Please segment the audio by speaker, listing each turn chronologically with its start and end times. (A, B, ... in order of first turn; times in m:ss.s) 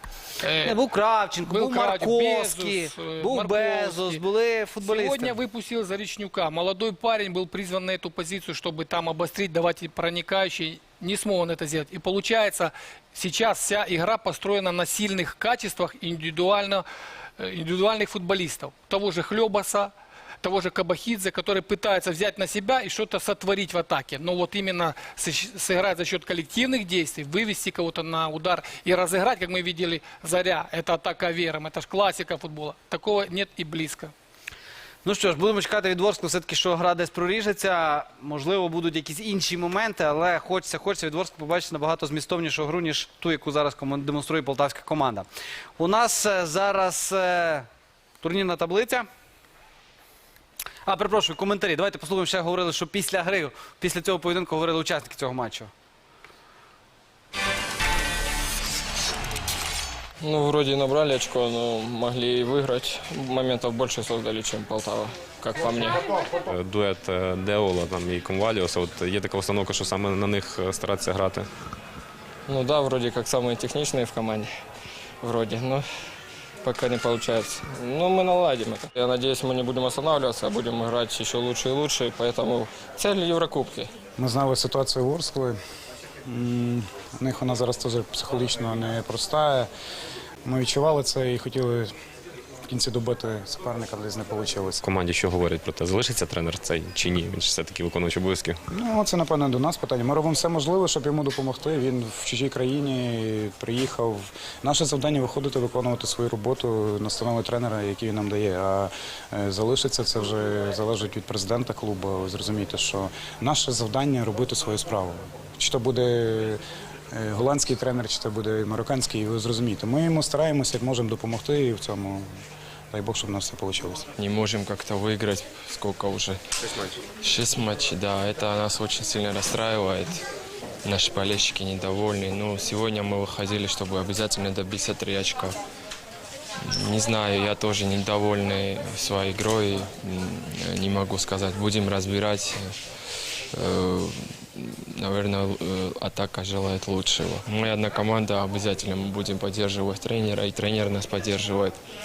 0:00.4-0:00.8 A
0:00.6-0:05.4 B
0:01.4-0:04.2 A
0:04.8-0:16.8 A
0:17.4-0:19.9 A
0:20.4-0:34.1 A
0:35.0-0:47.7 B
0:48.2-0:49.1 B
0:50.8-0:55.7 B
1:00.2-1:06.1 C
1:06.4-1:11.5 D
1:12.5-1:14.5 C
1:15.2-1:15.8 C
1:16.6-1:23.9 C
1:24.2-1:25.6 E
1:26.2-1:29.7 E
1:30.4-1:31.9 E
1:32.7-1:34.8 E
1:34.8-1:38.6 D
1:38.7-1:56.6 E
1:57.1-2:02.3 E
2:02.9-2:04.1 E
2:04.2-2:06.4 C
2:07.2-2:10.2 C
2:10.8-2:15.6 C
2:16.6-2:22.7 C
2:23.5-2:31.8 C